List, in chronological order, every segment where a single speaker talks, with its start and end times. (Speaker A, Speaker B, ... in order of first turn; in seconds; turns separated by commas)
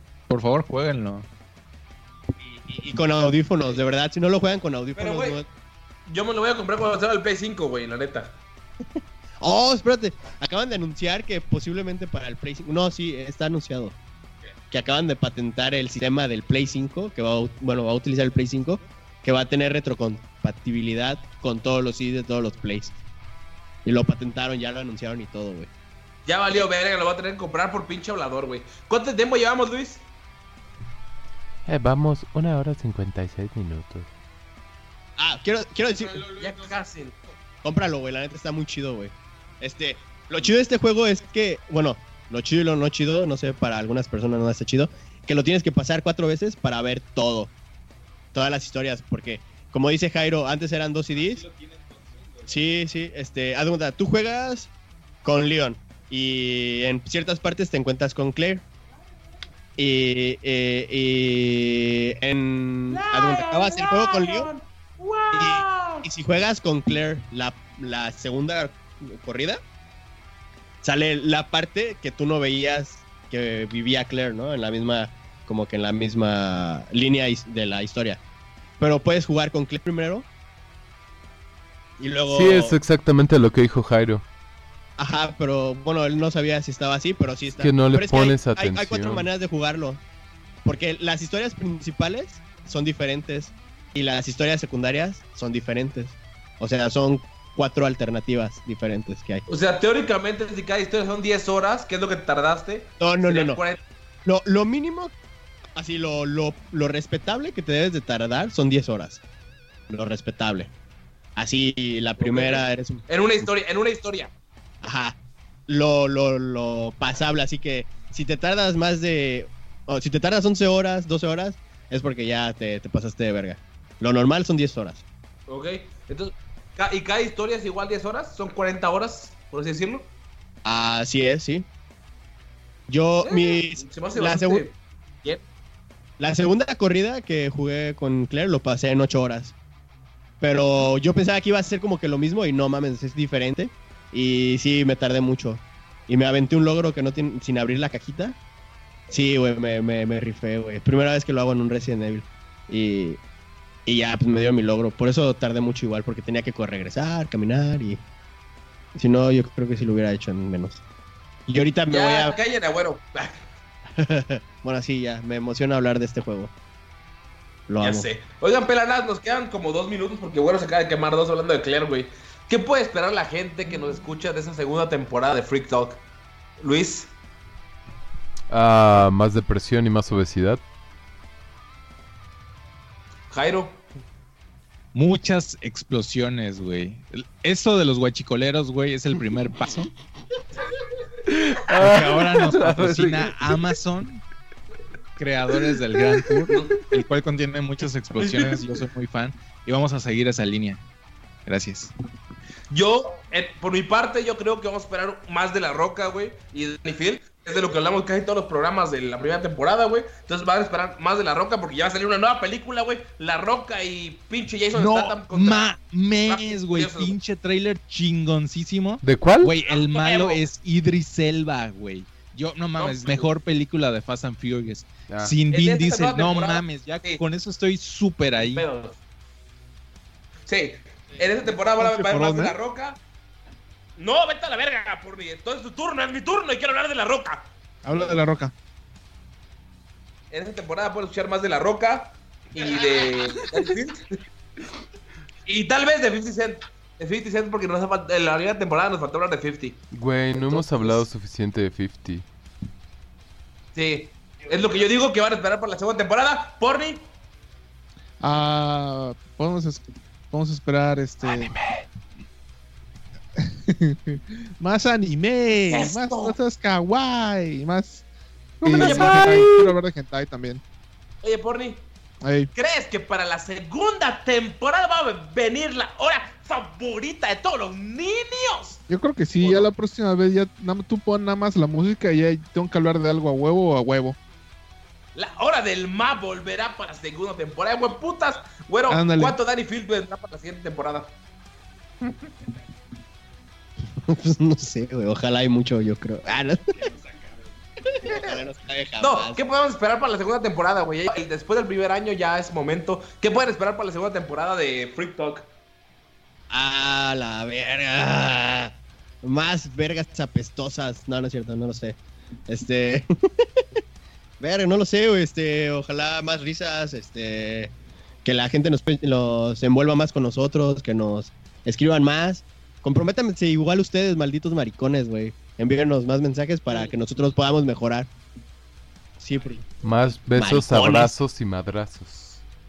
Speaker A: 0.3-1.3, Speaker B: 2.4-5.5, Speaker C: 5.0-5.4, Speaker C: 6.1-8.3, Speaker B: 9.4-13.9, Speaker B: 14.7-23.0, Speaker B: 23.8-25.7, Speaker C: 26.2-30.0, Speaker D: 31.6-34.1, Speaker B: 35.2-36.4, Speaker C: 36.2-37.1, Speaker B: 37.6-47.5, Speaker B: 48.3-51.4, Speaker B: 52.4-54.7, Speaker B: 55.2-58.6, Speaker B: 59.8-64.5, Speaker C: 62.9-66.0, Speaker B: 65.3-69.6, Speaker B: 70.8-78.2, Speaker B: 78.8-80.2, Speaker B: 82.0-82.7, Speaker D: 82.3-84.2, Speaker B: 85.0-90.0, Speaker D: 87.6-89.3, Speaker B: 90.6-99.4, Speaker C: 99.5-103.8, Speaker B: 103.0-103.6, Speaker B: 104.2-105.1, Speaker B: 105.8-109.2, Speaker B: 109.9-110.7, Speaker B: 111.3-113.0, Speaker C: 112.2-114.3, Speaker B: 114.8-125.0, Speaker C: 125.5-130.1, Speaker B: 130.6-131.7, Speaker B: 132.9-134.6, Speaker C: 133.2-135.4, Speaker B: 136.2-139.5, Speaker B: 140.4-148.4, Speaker B: 149.1-153.2, Speaker B: 153.8-158.0, Speaker B: 158.9-160.8, Speaker B: 161.5-162.3, Speaker C: 161.9-163.4, Speaker B: 164.0-166.5, Speaker B: 167.7-168.1, Speaker C: 167.8-176.0, Speaker C: 176.6-177.1, Speaker D: 178.5-180.6, Speaker C: 183.3-183.8, Speaker A: 184.9-189.9, Speaker D: 191.2-193.6, Speaker A: 191.7-194.2, Speaker A: 195.2-200.8, Speaker D: 196.0-196.4, Speaker C: 196.5-196.8, Speaker A: 201.4-201.9, Speaker C: 202.7-217.1, Speaker A: 214.7-228.7, Speaker D: 219.0-219.5, Speaker C: 219.7-220.4, Speaker C: 222.8-223.3, Speaker D: 225.1-225.3, Speaker C: 225.5-227.2, Speaker C: 228.4-229.0, Speaker C: 230.4-233.0, Speaker E: 231.4-232.6, Speaker C: 234.0-238.2, Speaker E: 237.8-238.5, Speaker C: 240.3-244.2, Speaker C: 245.4-249.8, Speaker D: 249.9-252.2, Speaker C: 250.3-251.0, Speaker C: 253.7-257.0, Speaker E: 258.2-261.5, Speaker E: 263.4-268.0, Speaker C: 265.7-266.4, Speaker E: 268.6-270.6, Speaker D: 268.6-269.7, Speaker C: 268.7-269.5, Speaker C: 271.2-271.8, Speaker E: 272.2-272.5, Speaker C: 272.5-278.8, Speaker E: 278.9-284.2, Speaker C: 279.4-279.7, Speaker C: 285.1-291.1, Speaker E: 288.9-289.4, Speaker B: 294.0-296.9, Speaker B: 297.8-299.4, Speaker C: 299.0-305.5, Speaker B: 306.5-313.1, Speaker B: 314.4-317.7, Speaker B: 318.2-328.1, Speaker B: 329.2-329.6, Speaker D: 329.8-332.4, Speaker B: 330.4-331.1